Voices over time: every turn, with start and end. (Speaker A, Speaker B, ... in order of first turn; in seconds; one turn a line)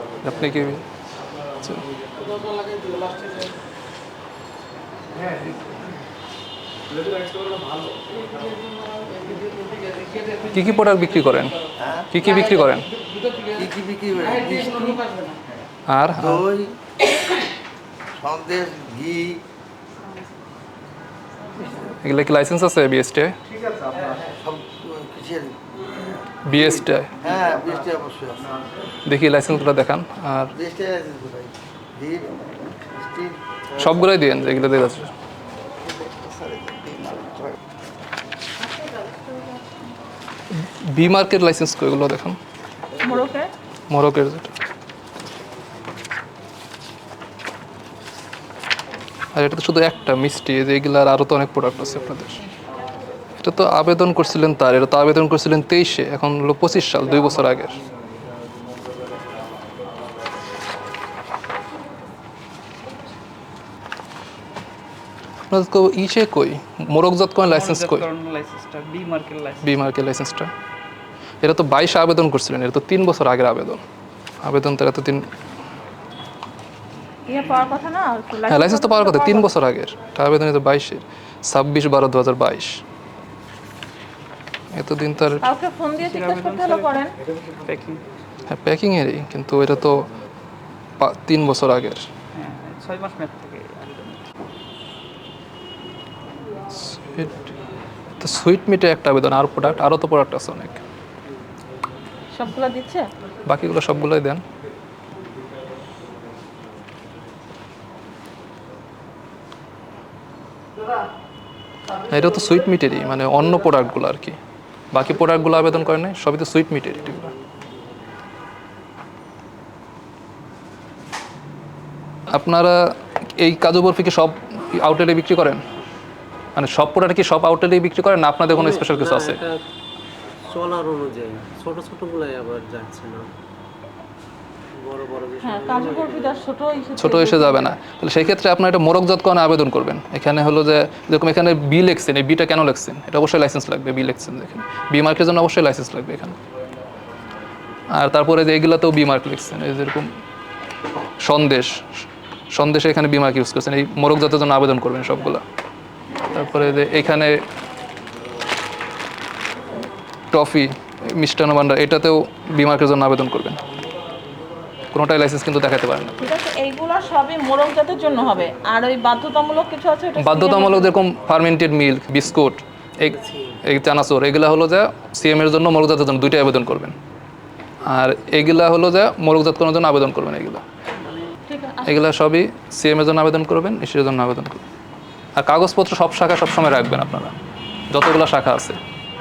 Speaker A: 0.2-0.8
Speaker A: 10.5-11.6
Speaker B: 11.8-12.1
Speaker A: 12.1-12.9
Speaker B: 13.5-15.1
Speaker A: 15.9-16.4
Speaker B: 16.2-16.8
Speaker B: 18.1-19.4
Speaker A: 22.0-23.4
Speaker B: 24.1-26.0
Speaker A: 26.4-27.2
Speaker B: 27.2-28.5
Speaker A: 29.1-30.6
Speaker B: 30.6-32.3
Speaker B: 32.9-33.9
Speaker A: 33.8-35.1
Speaker B: 36.0-37.5
Speaker C: 38.6-39.7
Speaker A: 40.5-42.4
Speaker C: 43.0-43.5
Speaker A: 43.9-44.5
Speaker A: 49.3-52.4
Speaker A: 53.4-57.8
Speaker A: 65.5-68.1
Speaker D: 67.4-69.8
Speaker A: 69.6-70.5
Speaker A: 71.4-73.8
Speaker A: 74.4-75.3
Speaker C: 77.3-79.5
Speaker A: 78.4-82.8
Speaker A: 84.7-85.5
Speaker C: 85.4-87.1
Speaker D: 86.0-88.0
Speaker A: 88.5-90.1
Speaker A: 91.0-92.1
Speaker D: 92.3-94.3
Speaker A: 96.7-97.5
Speaker A: 98.2-100.8
Speaker C: 102.3-103.1
Speaker A: 103.5-104.4
Speaker A: 112.0-114.4
Speaker A: 114.9-117.3
Speaker A: 122.3-122.8
Speaker A: 123.4-125.6
Speaker A: 126.5-129.4
Speaker E: 128.5-129.6
Speaker E: 130.5-133.3
Speaker E: 134.8-136.4
Speaker C: 135.4-137.8
Speaker A: 137.0-146.4
Speaker A: 147.9-150.1
Speaker A: 151.2-151.8
Speaker A: 152.5-155.4
Speaker A: 156.3-157.4
Speaker A: 160.3-163.6
Speaker A: 164.9-166.2
Speaker C: 166.2-171.0
Speaker A: 170.2-177.0
Speaker E: 173.1-173.7
Speaker A: 177.8-180.6
Speaker E: 181.0-181.3
Speaker C: 181.5-182.0
Speaker A: 181.9-184.6
Speaker A: 185.4-187.3
Speaker A: 187.9-188.8